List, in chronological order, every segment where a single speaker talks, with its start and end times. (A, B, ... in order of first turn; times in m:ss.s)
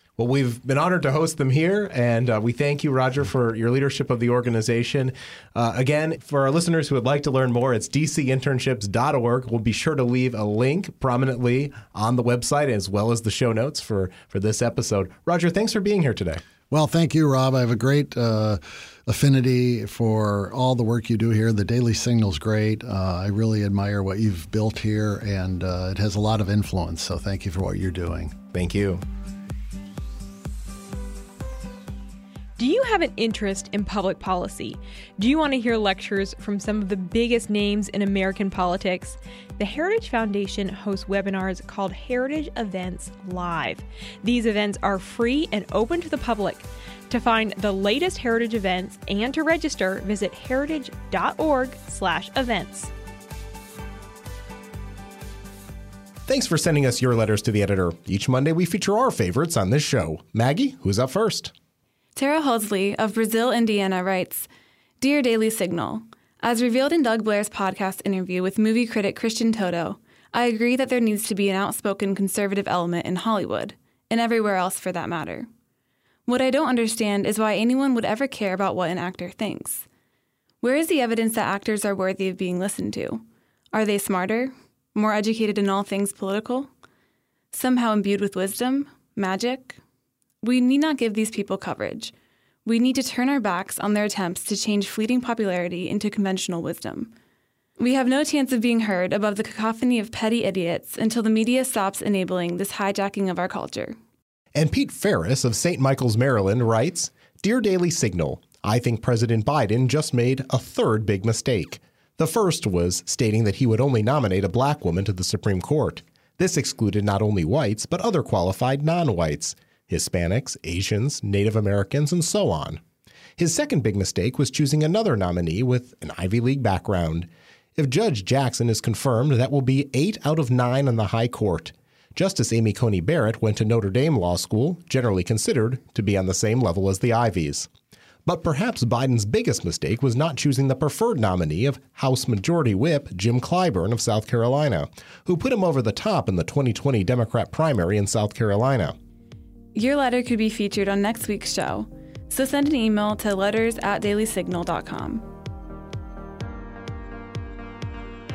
0:00.2-0:16.4 A
0:16.7-0:28.4 B
0:28.5-0:29.0 A
0:32.6-0:52.9 C
0:56.3-1:01.5 A
1:02.2-1:04.5 D
1:05.0-1:15.5 D
1:16.3-1:19.8 D
1:20.6-1:26.7 D
1:27.5-1:29.8 D
1:30.4-1:32.1 D
1:32.6-1:37.1 D
1:37.8-1:44.0 D
1:44.5-2:02.8 A
2:03.4-2:17.7 A
2:18.2-2:29.0 A
2:29.7-2:35.3 D